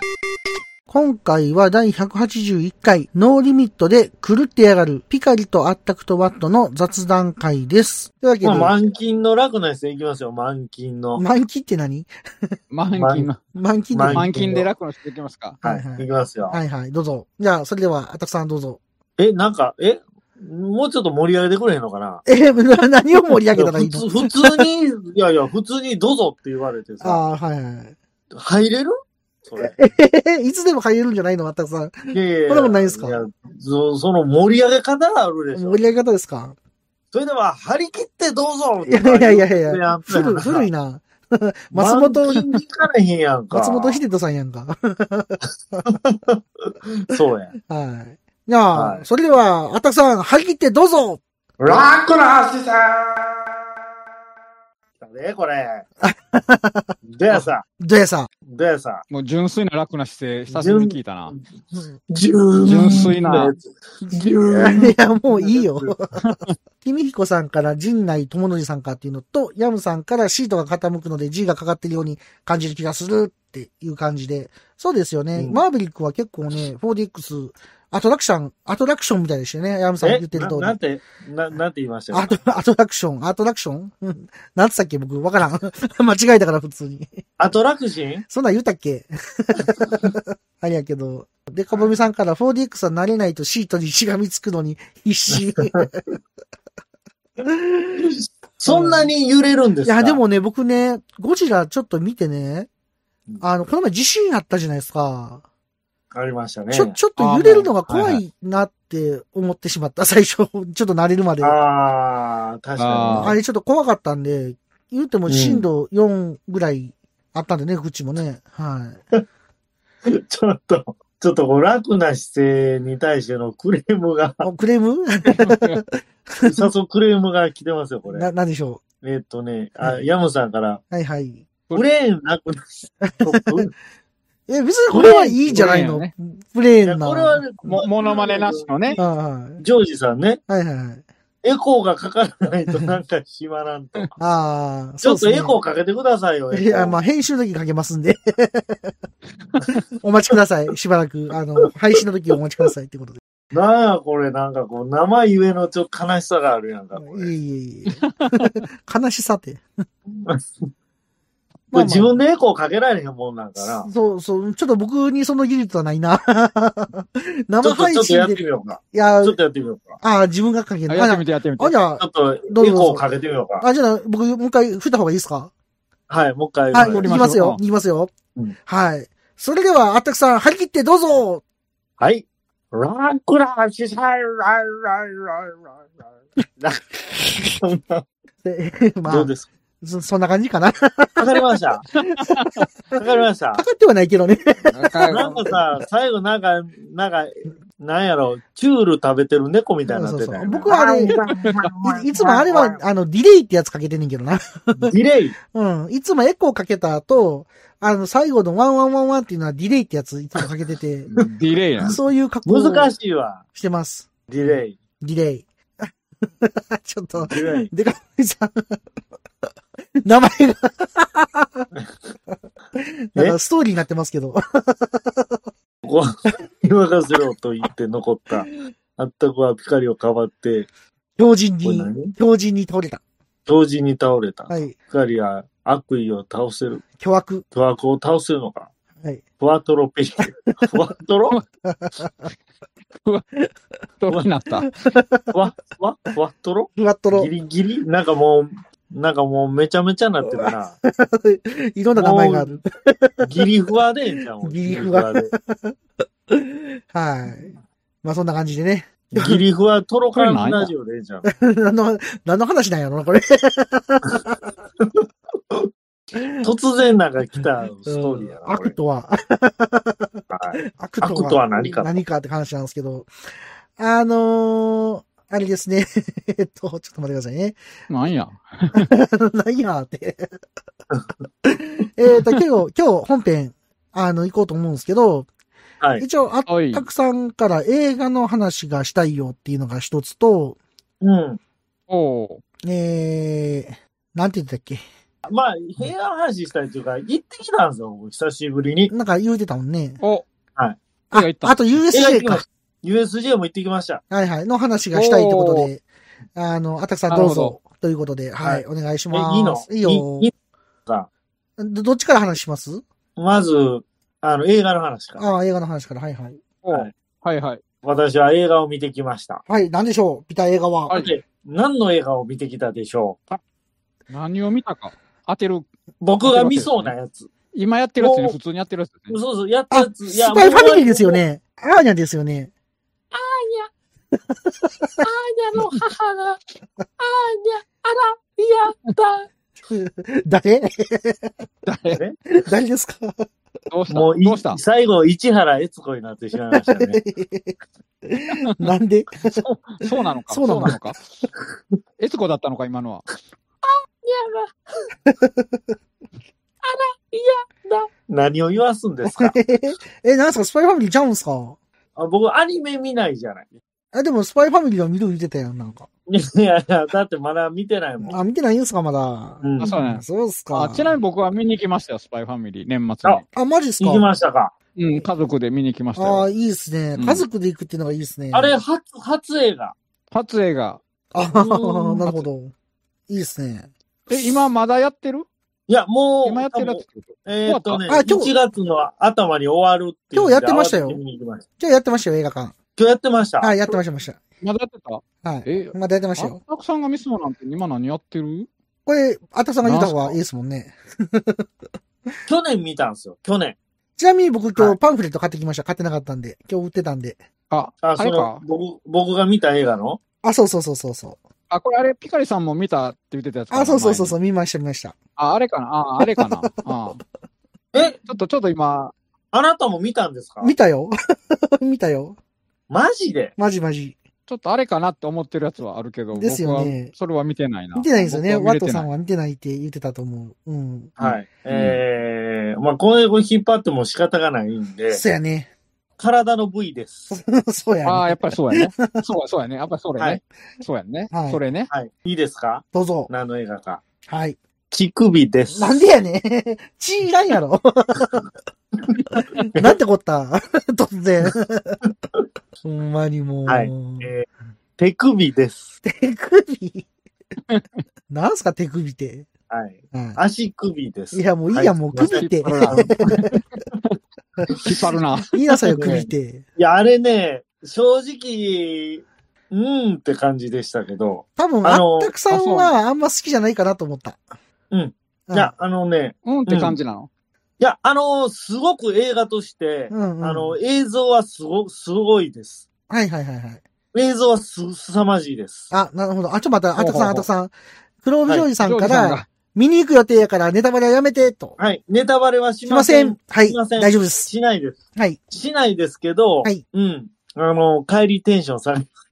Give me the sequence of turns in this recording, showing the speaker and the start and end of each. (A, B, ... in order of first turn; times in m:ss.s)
0:00.9-0:08.7 A
0:08.4-0:11.2 B
0:11.2-0:12.6 A
0:12.7-0:13.4 C
0:12.9-0:13.3 B
0:13.5-0:14.6 A
0:13.9-0:14.7 B
0:14.1-0:15.6 C
0:15.6-0:18.8 A
0:15.6-0:16.6 B
0:19.2-0:22.2 B
0:22.3-0:24.7 A
0:23.6-0:27.2 B
0:27.0-0:28.0 A
0:28.3-0:29.8 B
0:29.6-0:33.2 A
0:32.1-0:35.8 B
0:35.5-0:36.6 A
0:37.1-0:40.7 B
0:38.9-0:42.4 A
0:41.7-0:44.0 B
0:43.5-0:46.0 A
0:45.9-0:47.6 B
0:47.7-0:51.2 A
0:48.7-0:49.0 B
0:51.6-0:53.4 B
0:55.0-0:55.9 B
0:56.0-0:58.3 A
0:57.1-0:57.6 B
0:58.5-0:59.0 B
0:59.1-1:01.3 C
1:00.5-1:01.4 B
1:02.1-1:05.9 B
1:02.6-1:03.5 C
1:04.5-1:20.8 A
1:06.2-1:06.5 C
1:15.4-1:15.6 B
1:20.0-1:22.3 B
1:22.1-1:27.2 A
1:27.4-1:28.2 B
1:28.3-1:36.1 A
1:35.3-1:35.9 B
1:37.4-1:38.1 A
1:38.0-1:40.2 B
1:38.6-1:39.1 A
1:39.8-1:42.7 A
1:43.4-1:45.4 A
1:46.1-1:47.0 B
1:46.7-1:51.6 A
1:47.2-1:48.1 C
1:51.4-1:53.4 B
1:52.8-1:53.3 C
1:53.2-1:59.0 A
1:55.3-1:55.7 B
2:00.1-2:04.5 B
2:04.4-2:06.7 A
2:05.3-2:05.8 C
2:06.4-2:08.3 B
2:08.1-2:08.8 A
2:09.0-2:10.8 B
2:10.9-2:11.5 A
2:11.7-2:13.7 B
2:13.0-2:13.6 A
2:14.5-2:17.4 A
2:14.9-2:15.8 B
2:15.5-2:16.1 C
2:16.8-2:19.0 B
2:17.8-2:19.0 C
2:19.0-2:19.6 A
2:19.6-2:20.4 B
2:20.5-2:21.0 A
2:21.4-2:24.1 B
2:24.2-2:25.6 A
2:25.0-2:27.0 B
2:26.5-2:28.9 A
2:30.0-2:33.2 A
2:33.5-2:37.3 B
2:37.0-2:39.6 A
2:37.9-2:38.6 C
2:40.2-2:40.7 B
2:41.7-2:42.1 A
2:41.7-2:43.9 B
2:43.6-2:49.4 A
2:47.6-2:50.0 B
2:50.0-2:53.0 A
2:50.9-2:51.8 C
2:52.0-2:53.6 B
2:53.6-2:55.5 A
2:56.1-2:57.3 B
2:56.7-2:58.1 A
2:56.8-2:57.6 C
2:58.7-3:01.4 A
3:02.0-3:05.9 B
3:07.4-3:08.0 B
3:08.4-3:11.4 A
3:09.1-3:09.5 B
3:11.2-3:11.8 B
3:12.0-3:12.6 C
3:12.2-3:12.5 A
3:13.0-3:13.6 B
3:13.6-3:15.5 A
3:14.7-3:15.3 C
3:15.1-3:22.8 B
3:19.9-3:21.2 A
3:21.4-3:21.7 C
3:21.8-3:24.9 A
3:24.8-3:25.4 B
3:25.5-3:31.1 A
3:31.1-3:32.0 C
3:31.8-3:32.9 A
3:32.5-3:33.4 B
3:33.5-3:38.8 A
3:34.3-3:34.8 B
3:37.2-3:37.7 B
3:40.0-3:41.7 A
3:42.8-3:45.4 A
3:45.8-3:50.7 B
3:51.2-3:53.0 A
3:51.6-3:52.2 B
3:53.5-3:56.8 B
3:57.0-3:57.4 A
3:57.5-3:58.7 B
3:59.4-4:01.4 B
4:01.6-4:02.3 A
4:04.0-4:04.7 C
4:04.6-4:05.4 A
4:05.3-4:10.8 B
4:06.8-4:07.3 A
4:10.2-4:13.4 A
4:12.0-4:12.6 B
4:13.2-4:15.3 B
4:14.4-4:15.8 A
4:16.3-4:17.5 A
4:18.0-4:19.4 A
4:19.2-4:21.3 B
4:20.1-4:20.7 C
4:21.2-4:24.4 A
4:24.8-4:25.7 B
4:26.1-4:26.4 A
4:26.4-4:28.8 B
4:27.9-4:33.1 A
4:30.3-4:31.9 B
4:33.8-4:37.6 A
4:37.9-4:38.9 C
4:38.8-4:40.3 A
4:41.4-4:45.3 A
4:46.0-4:50.6 A
4:46.5-4:46.9 C
4:51.0-4:51.4 B
4:51.9-4:52.4 C
4:52.6-4:54.8 A
4:55.3-4:58.9 B
4:58.9-5:00.0 A
5:01.1-5:02.4 A
5:01.1-5:01.6 C
5:01.9-5:04.0 B
5:04.1-5:05.8 A
5:04.9-5:05.7 C
5:06.4-5:10.3 A
5:07.1-5:07.6 C
5:08.4-5:10.3 B
5:11.6-5:12.8 A
5:13.2-5:15.2 B
5:15.2-5:16.4 A
5:16.6-5:17.6 C
5:17.8-5:19.4 B
5:19.5-5:21.0 A
5:20.9-5:21.2 C
5:20.9-5:23.4 B
5:24.1-5:25.7 C
5:26.0-5:27.3 B
5:26.2-5:26.9 C
5:27.5-5:29.2 C
5:28.0-5:28.4 B
5:29.1-5:31.2 B
5:29.7-5:32.5 A
5:33.1-5:33.7 B
5:34.3-5:35.0 A
5:35.0-5:36.4 B
5:37.0-5:39.2 B
5:39.7-5:41.3 A
5:41.7-5:42.0 C
5:42.3-5:43.3 A
5:43.7-5:44.6 C
5:43.9-5:47.0 B
5:46.5-5:49.4 A
5:49.4-5:51.2 C
5:50.3-5:50.8 A
5:52.0-5:53.0 C
5:53.7-5:54.5 B
5:55.1-5:55.7 A
5:56.6-5:59.4 B
5:59.0-6:01.6 A
6:02.0-6:03.6 B
6:03.9-6:05.9 A
6:06.1-6:08.2 B
6:08.1-6:10.9 A
6:09.4-6:09.8 B
6:09.6-6:13.2 C
6:13.3-6:14.0 A
6:13.8-6:14.5 B
6:14.8-6:16.3 C
6:16.0-6:18.6 A
6:17.0-6:17.2 C
6:18.3-6:19.8 B
6:20.1-6:20.8 C
6:21.1-6:22.5 A
6:21.3-6:22.0 B
6:23.1-6:23.7 A
6:24.1-6:25.3 C
6:25.7-6:31.4 B
6:26.2-6:27.8 C
6:27.9-6:28.3 A
6:30.1-6:31.0 A
6:31.6-6:32.6 A
6:32.8-6:33.8 B
6:33.4-6:34.2 A
6:34.4-6:38.5 C
6:35.2-6:36.4 A
6:38.9-6:41.5 A
6:39.6-6:40.2 C
6:42.3-6:43.6 B
6:44.0-6:47.2 A
6:47.5-6:48.4 C
6:47.8-6:50.0 B
6:50.2-6:51.2 A
6:51.5-6:54.2 C
6:53.5-6:55.0 A
6:55.2-6:57.0 C
6:56.0-6:56.5 A
6:58.1-6:58.9 C
6:59.3-7:00.5 B
7:00.4-7:02.2 A
7:02.7-7:03.4 B
7:03.4-7:04.0 A
7:04.3-7:08.9 C
7:06.1-7:06.9 A
7:07.8-7:11.0 A
7:11.0-7:15.0 B
7:11.0-7:11.8 C
7:14.9-7:15.5 A
7:16.0-7:17.1 B
7:17.1-7:19.0 A
7:17.8-7:21.7 C
7:21.1-7:21.4 A
7:21.7-7:23.8 B
7:22.7-7:23.1 A
7:24.1-7:24.4 A
7:24.7-7:25.8 B
7:25.5-7:28.3 A
7:29.5-7:31.8 A
7:32.6-7:34.1 A
7:33.5-7:34.3 B
7:34.8-7:35.8 B
7:35.8-7:36.9 A
7:38.1-7:39.3 A
7:39.5-7:42.9 B
7:39.9-7:40.2 A
7:41.1-7:43.3 A
7:42.1-7:44.0 C
7:44.5-7:44.8 B
7:44.5-7:45.4 C
7:45.3-7:46.4 A
7:45.6-7:52.1 B
7:51.4-7:54.2 A
7:52.3-7:52.7 C
7:54.7-7:56.8 B
7:56.2-7:57.1 C
7:57.6-8:02.6 B
7:59.9-8:00.6 A
8:02.9-8:03.6 A
8:03.9-8:05.7 B
8:05.7-8:11.6 A
8:06.8-8:07.3 C
8:08.6-8:09.3 C
8:11.6-8:18.9 B
8:12.7-8:14.3 A